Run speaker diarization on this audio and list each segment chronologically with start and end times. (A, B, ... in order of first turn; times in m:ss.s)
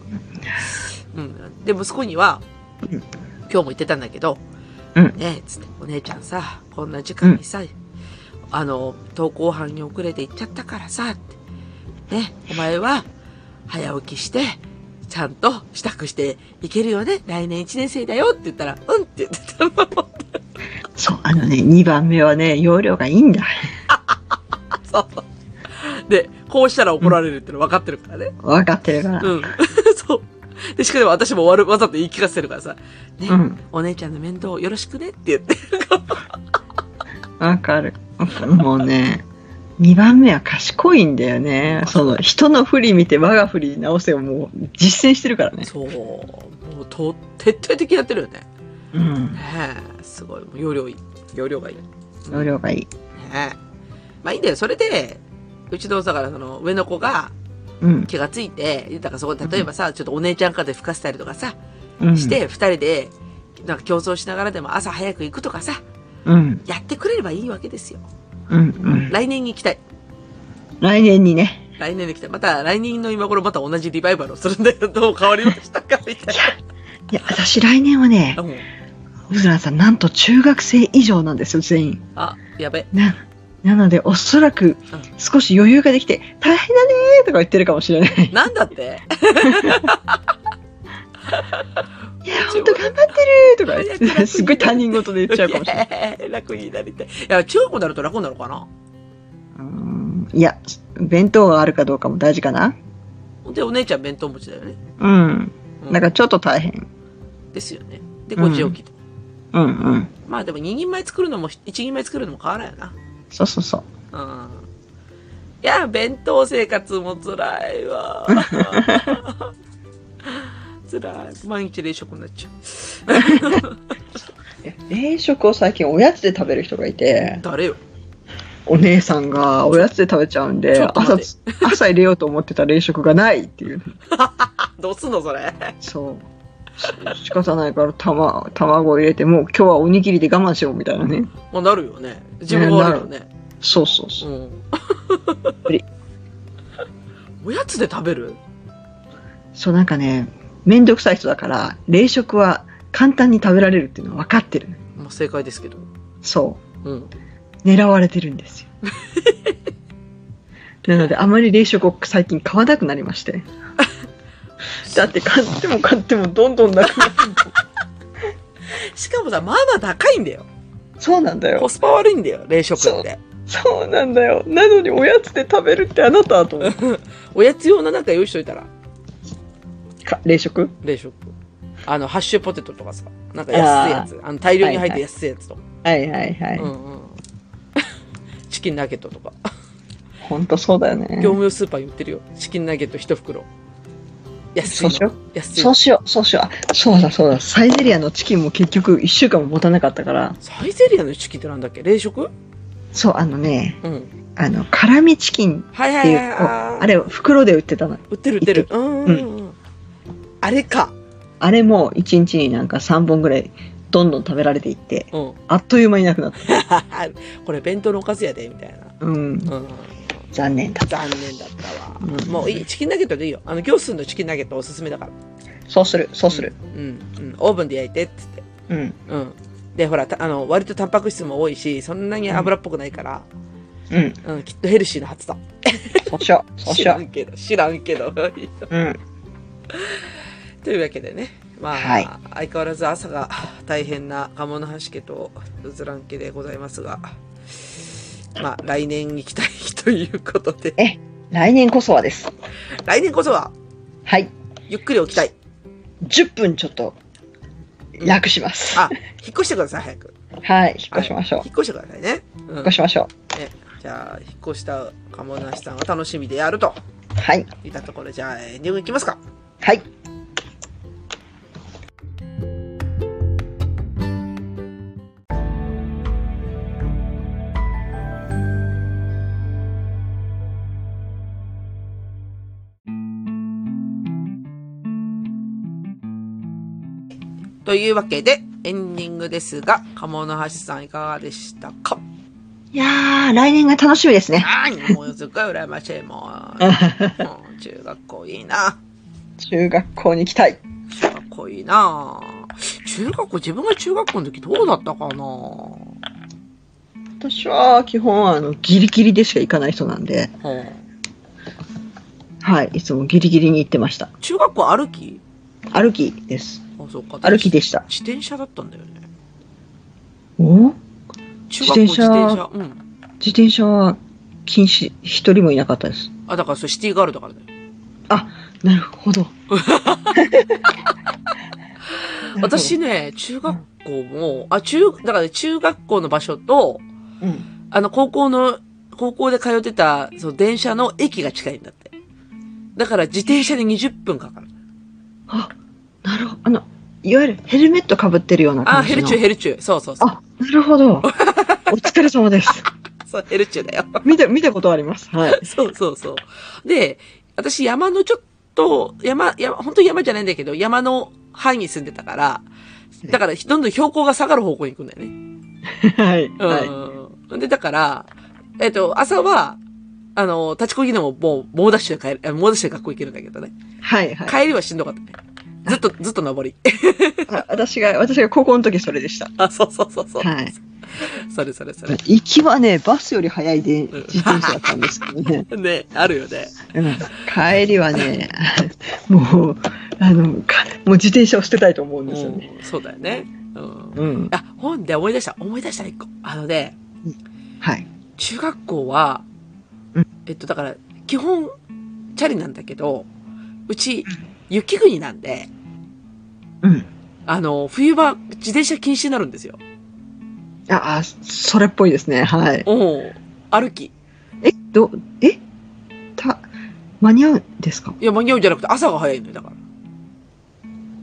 0:00.6-0:02.4 A
0:03.5-0:04.4 A
0:05.1-0:07.7 A
0:08.5-0:11.4 A
0:12.1-0:13.1 A
0:13.7-0:20.4 A
0:21.0-0:23.5 B
0:23.9-0:28.4 A
0:28.4-0:29.5 B
0:29.2-0:36.3 A
0:33.3-0:33.6 B
0:37.4-0:39.2 B
0:39.8-0:45.7 B
0:41.7-0:42.2 A
0:45.6-0:48.5 A
0:48.9-0:49.4 B
0:49.3-0:52.5 A
0:52.3-0:52.9 B
0:53.2-0:53.6 A
0:54.2-0:57.3 A
0:57.8-0:58.1 B
0:58.1-1:01.6 A
1:02.0-1:02.4 B
1:02.1-1:05.8 A
1:06.3-1:06.6 B
1:06.7-1:08.0 A
1:08.5-1:09.1 B
1:08.9-1:09.8 A
1:10.8-1:11.6 B
1:11.8-1:16.6 A
1:17.1-1:18.4 B
1:18.4-1:18.7 A
1:19.3-1:22.0 B
1:22.2-1:22.9 A
1:22.9-1:28.4 B
1:28.3-1:30.2 A
1:29.4-1:29.9 B
1:31.3-1:31.8 A
1:32.2-1:35.8 B
1:32.4-1:33.2 A
1:33.7-1:38.7 A
1:39.6-1:42.8 B
1:43.4-1:44.8 A
1:45.0-1:46.9 B
1:47.5-1:49.0 A
1:48.4-1:48.8 B
1:49.5-1:50.1 B
1:50.3-1:53.0 A
1:53.3-1:53.9 B
1:54.1-1:54.7 A
1:55.6-1:59.5 A
1:58.3-1:59.2 B
2:00.3-2:03.8 A
2:03.1-2:03.6 B
2:04.6-2:07.4 B
2:07.4-2:07.8 A
2:08.7-2:14.0 B
2:10.7-2:11.8 A
2:14.1-2:15.8 A
2:15.8-2:16.3 B
2:16.8-2:21.3 B
2:21.5-2:23.3 A
2:22.5-2:23.1 B
2:23.6-2:24.2 B
2:24.2-2:25.6 A
2:27.4-2:28.4 A
2:29.6-2:34.8 B
2:35.0-2:35.9 A
2:36.2-2:36.6 B
2:36.8-2:37.1 A
2:37.6-2:38.7 B
2:38.9-2:39.6 A
2:40.8-2:43.5 B
2:44.9-2:47.5 B
2:48.7-2:50.5 A
2:51.0-2:51.7 B
2:51.6-2:53.2 A
2:52.8-2:56.8 B
2:56.6-2:58.7 A
3:00.0-3:00.7 B
3:00.8-3:01.3 A
3:01.8-3:05.6 A
3:03.5-3:04.1 B
3:04.6-3:05.0 B
3:05.8-3:06.7 B
3:06.6-3:07.2 A
3:08.5-3:09.5 A
3:10.2-3:11.4 B
3:11.2-3:13.5 A
3:14.6-3:15.8 A
3:14.6-3:20.4 B
3:20.4-3:22.3 A
3:22.9-3:23.8 B
3:23.8-3:24.1 A
3:24.4-3:29.3 B
3:25.7-3:26.9 A
3:28.1-3:29.6 A
3:30.4-3:31.0 A
3:31.4-3:36.6 B
3:35.1-3:35.4 A
3:36.4-3:38.9 A
3:39.0-3:39.5 B
3:39.5-3:40.2 A
3:40.3-3:40.9 B
3:40.9-3:45.1 A
3:42.0-3:42.6 B
3:45.7-3:46.5 B
3:46.3-3:48.4 A
3:48.7-3:49.0 B
3:49.1-3:53.3 A
3:53.9-3:54.2 B
3:54.2-3:58.7 A
3:56.1-3:57.0 B
3:58.7-3:59.0 B
3:59.7-4:00.1 A
4:00.6-4:07.1 A
4:01.7-4:02.1 B
4:08.4-4:10.8 A
4:10.8-4:12.3 B
4:12.8-4:13.5 A
4:14.1-4:14.3 B
4:14.7-4:15.3 A
4:16.0-4:17.0 B
4:18.0-4:18.9 B
4:18.7-4:20.1 A
4:20.4-4:21.4 B
4:20.9-4:22.8 A
4:22.6-4:23.1 B
4:23.3-4:26.8 A
4:27.2-4:27.5 B
4:27.6-4:29.2 A
4:47.6-4:52.0 A
4:52.7-4:54.9 B
4:54.4-4:58.8 A
4:56.6-4:57.3 B
4:59.4-5:00.6 B
5:00.9-5:05.9 A
5:07.2-5:10.3 B
5:10.4-5:10.8 A
5:12.4-5:14.1 B
5:14.2-5:15.2 A
5:15.7-5:16.6 B
5:16.8-5:19.0 A
5:17.2-5:17.8 B
5:20.4-5:20.8 B
5:21.5-5:22.8 A
5:21.6-5:22.4 B
5:23.2-5:26.1 B
5:26.3-5:27.5 A
5:28.1-5:29.3 B
5:29.5-5:30.5 A
5:30.2-5:30.4 B
5:32.0-5:36.8 A
5:32.4-5:32.8 B
5:37.7-5:41.9 A
5:42.8-5:44.5 A
5:46.0-5:49.2 B
5:48.7-5:50.2 A
5:50.0-5:51.1 B
5:51.0-5:51.8 A
5:51.7-5:52.7 B
5:53.1-5:54.1 A
5:54.0-5:55.5 B
5:55.2-6:02.4 A
6:03.1-6:05.2 A
6:05.7-6:06.7 B
6:06.4-6:09.6 A
6:10.2-6:13.5 A
6:13.8-6:14.4 B
6:14.3-6:17.4 A
6:17.3-6:19.3 B
6:19.4-6:20.3 A
6:20.2-6:20.5 B
6:20.9-6:22.0 A
6:21.9-6:25.5 B
6:23.9-6:24.6 A
6:25.5-6:26.7 A
6:26.7-6:32.5 B
6:32.1-6:36.8 A
6:34.0-6:34.3 B
6:37.6-6:37.9 B
6:38.2-6:39.2 A
6:40.3-6:41.5 A
6:42.2-6:43.1 A
6:43.7-6:45.5 A
6:46.6-6:46.9 B
6:47.3-6:49.6 A
6:50.7-6:52.7 B
6:52.6-6:53.9 A
6:54.4-6:55.4 B
6:56.2-6:56.5 B
6:57.0-6:58.0 B
6:58.0-6:59.6 A